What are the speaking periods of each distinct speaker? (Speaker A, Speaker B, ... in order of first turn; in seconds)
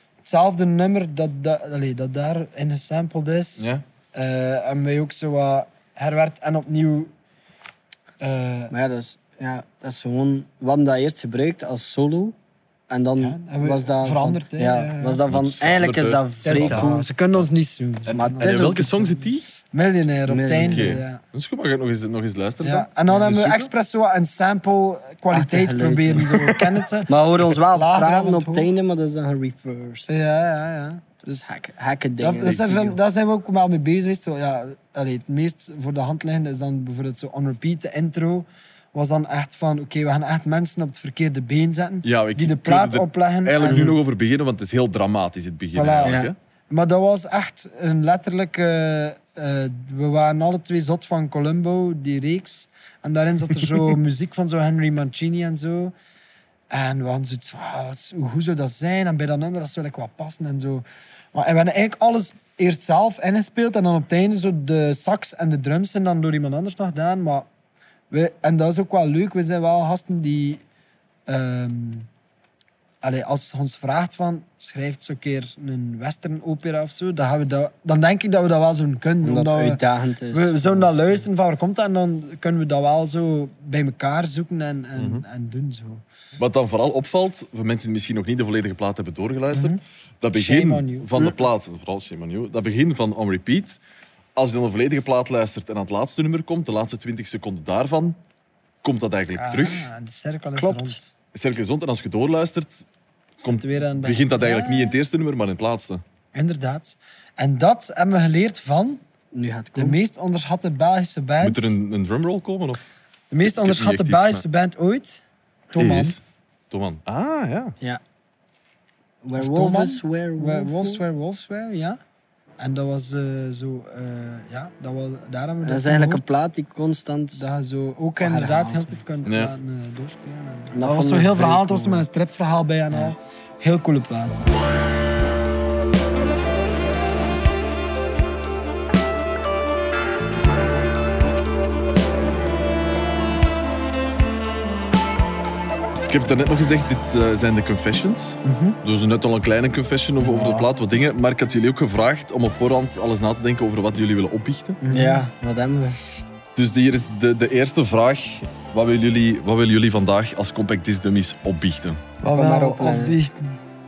Speaker A: 0.2-7.1, 8.2-8.7, 13.2-15.2, 16.4-21.2, 22.6-28.7, 30.1-31.5, 32.2-43.9, 45.7-55.9, 56.7-67.5, 68.1-70.6, 71.3-72.1, 73.0-86.0, 89.5-89.8, 90.3-91.1, 99.3-101.1, 103.4-105.0, 106.3-109.0, 109.7-111.7, 113.3-116.2, 119.4-122.0, 122.6-126.4, 127.3-134.5, 148.4-148.8, 150.2-150.7, 154.8-155.3, 162.2-163.6
Speaker B: 3.6-3.8, 15.2-16.9, 18.1-19.4, 20.7-23.7, 32.4-32.7, 42.0-46.4, 85.0-85.2, 86.4-93.8, 94.3-98.2, 98.8-99.9, 101.3-102.8, 103.4-106.0, 111.4-112.8, 113.4-114.4, 115.8-117.7, 129.2-129.5, 146.1-154.8, 156.6-162.0
Speaker C: 8.7-12.3, 12.9-17.1, 18.1-18.8, 20.3-21.0, 25.3-30.2, 31.4-33.0, 43.6-44.0, 46.0-46.3, 79.2-81.2, 100.6-101.0, 109.3-110.0, 119.2-121.0, 125.6-127.4, 128.2-129.0, 130.7-132.0, 154.9-156.0, 162.3-163.2